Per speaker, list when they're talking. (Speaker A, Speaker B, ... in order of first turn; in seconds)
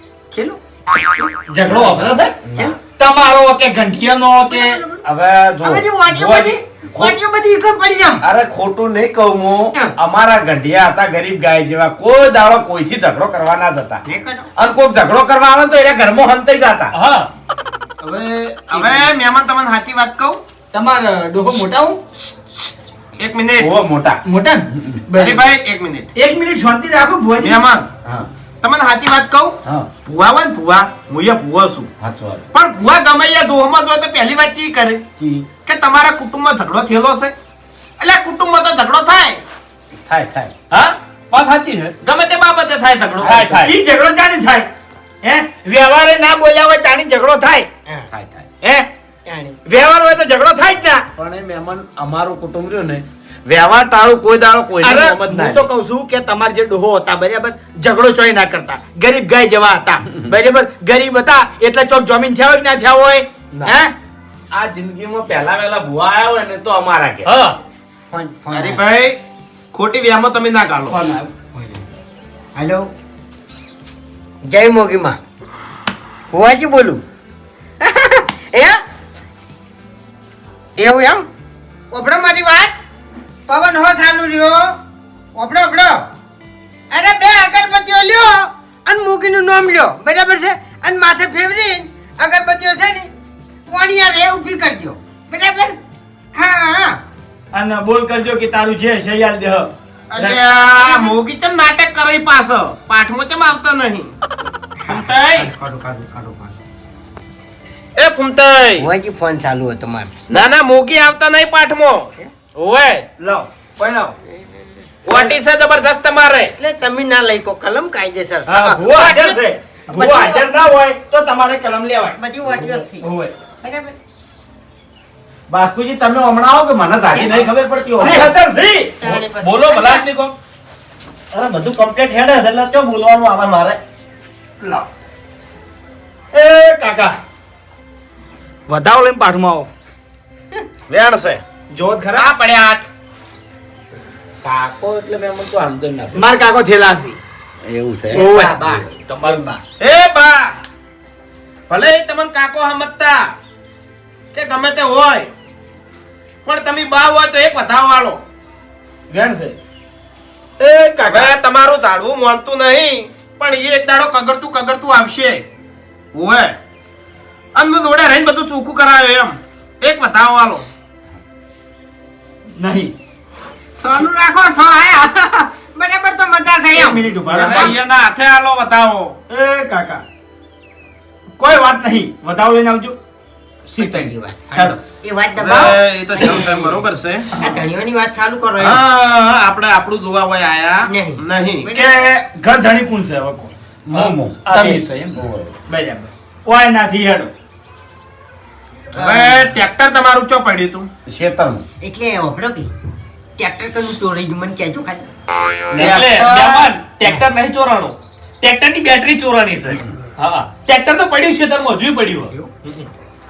Speaker A: 0.3-1.3, 4.5-5.0, 5.6-8.2, 14.0-14.5, 49.3-49.6, 68.1-68.8, 71.5-71.8, 72.5-72.9, 74.4-75.2, 76.3-77.0, 77.8-78.8, 80.8-81.3, 81.9-82.8, 83.5-84.8, 85.3-86.0, 86.9-93.1, 93.7-95.8, 96.3-97.0, 100.7-101.1, 104.8-106.5, 108.8-110.1, 114.3-114.7, 116.6-120.5, 122.2-123.1, 123.6-123.9, 129.0-130.0, 148.1-149.6, 173.8-177.1, 183.8-186.8, 187.4-188.8, 190.9-192.0, 199.0-199.4, 201.8-202.7, 203.4-205.1
Speaker B: 1.5-2.3, 3.0-4.8, 18.0-19.1, 20.7-22.0, 24.2-25.5, 26.1-27.6, 43.6-44.7, 45.2-47.7, 48.6-48.9, 49.7-51.0, 54.8-63.9, 70.9-71.3, 97.5-100.4, 113.2-114.1, 118.5-123.3, 128.0-128.9, 138.7-139.7, 141.7-142.3, 146.1-147.2, 148.1-148.6, 159.1-159.5, 160.6-161.3, 172.6-172.9, 176.7-177.8, 179.3-180.0, 181.4-183.0, 183.7-184.8, 191.7-193.5, 194.4-197.3, 205.8-206.7
Speaker C: 1.7-2.8, 5.0-7.1, 8.2-14.0, 14.6-16.9, 23.6-24.2, 24.8-25.0, 32.0-32.4, 35.2-35.5, 39.9-40.5, 48.1-48.5, 51.1-55.7, 64.5-67.3, 125.5-128.3, 144.4-146.3, 147.6-148.8, 193.9-195.6, 201.1-201.6
Speaker D: 16.9-17.3, 40.7-41.9, 43.2-43.7, 67.2-67.6, 129.0-130.3, 136.3-137.1, 193.9-194.8, 205.7-212.9
Speaker E: 18.7-20.4, 23.2-23.7, 25.1-26.1, 27.4-27.9, 28.6-31.9, 32.5-35.0, 35.6-37.3, 38.0-39.4, 42.0-43.6, 68.5-69.2, 69.7-71.0, 100.1-104.1, 104.9-105.5, 108.0-108.9, 110.3-113.1, 115.0-116.5, 127.1-127.9, 140.9-141.4, 142.1-142.8, 149.8-150.5, 151.7-153.3, 154.3-155.3, 156.4-158.2, 161.1-165.4, 166.1-166.6, 167.5-170.7, 177.2-179.2, 185.3-187.3, 188.6-191.7, 198.9-200.9
Speaker F: 131.3-133.8, 136.4-136.8